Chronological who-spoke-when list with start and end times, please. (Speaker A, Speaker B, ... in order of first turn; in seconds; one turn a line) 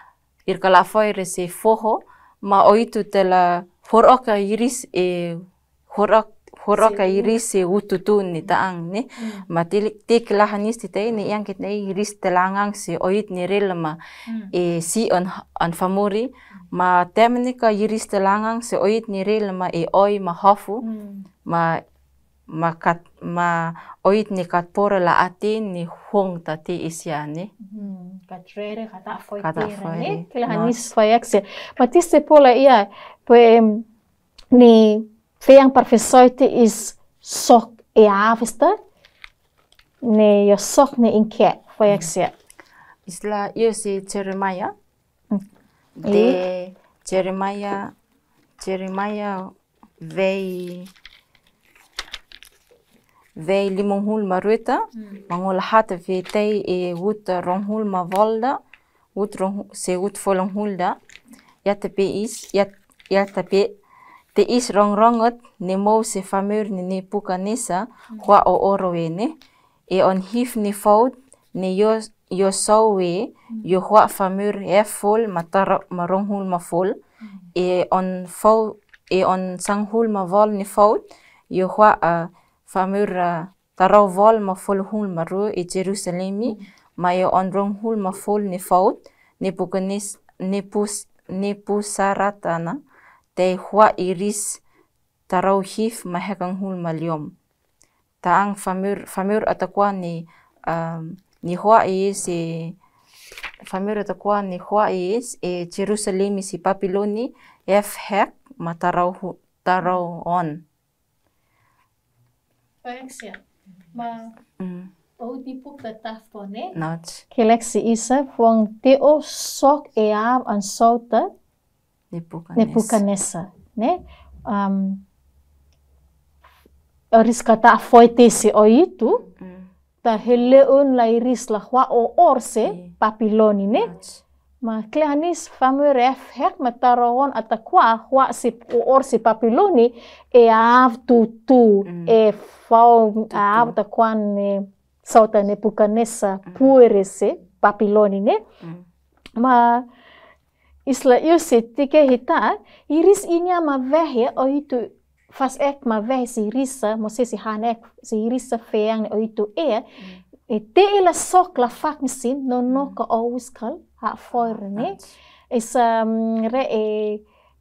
Speaker A: 0.5-14.0
Speaker B: 6.7-7.3
Speaker B: 9.2-9.5
Speaker B: 14.3-14.5
Speaker A: 14.5-20.8
Speaker B: 20.8-21.2
Speaker A: 21.4-21.8
Speaker A: 22.5-27.5
Speaker B: 27.6-33.8
Speaker A: 29.4-30.9
Speaker B: 34.5-38.8
Speaker B: 40.0-42.3
Speaker A: 43.0-44.7
Speaker A: 46.0-47.9
Speaker B: 46.0-46.4
Speaker A: 48.6-50.9
Speaker A: 53.4-58.6
Speaker A: 59.1-61.0
Speaker A: 61.6-63.7
Speaker A: 64.3-69.3
Speaker A: 69.9-77.0
Speaker A: 77.5-92.8
Speaker A: 93.3-94.6
Speaker A: 95.3-97.3
Speaker A: 98.2-102.8
Speaker A: 103.6-110.6
Speaker B: 112.8-113.4
Speaker B: 113.9-114.3
Speaker A: 114.6-114.9
Speaker B: 115.2-116.7
Speaker A: 116.7-117.2
Speaker B: 117.3-121.3
Speaker A: 122.1-123.0
Speaker B: 122.5-125.0
Speaker B: 127.1-129.2
Speaker A: 129.3-129.7
Speaker B: 130.0-133.9
Speaker A: 132.6-132.9
Speaker A: 133.8-134.2
Speaker B: 134.6-148.4
Speaker A: 141.8-142.2
Speaker A: 143.3-143.8
Speaker A: 146.5-146.7
Speaker B: 149.4-149.8
Speaker B: 150.8-159.8
Speaker B: 160.5-165.0
Speaker A: 162.7-163.0
Speaker A: 164.6-165.1
Speaker B: 165.5-167.2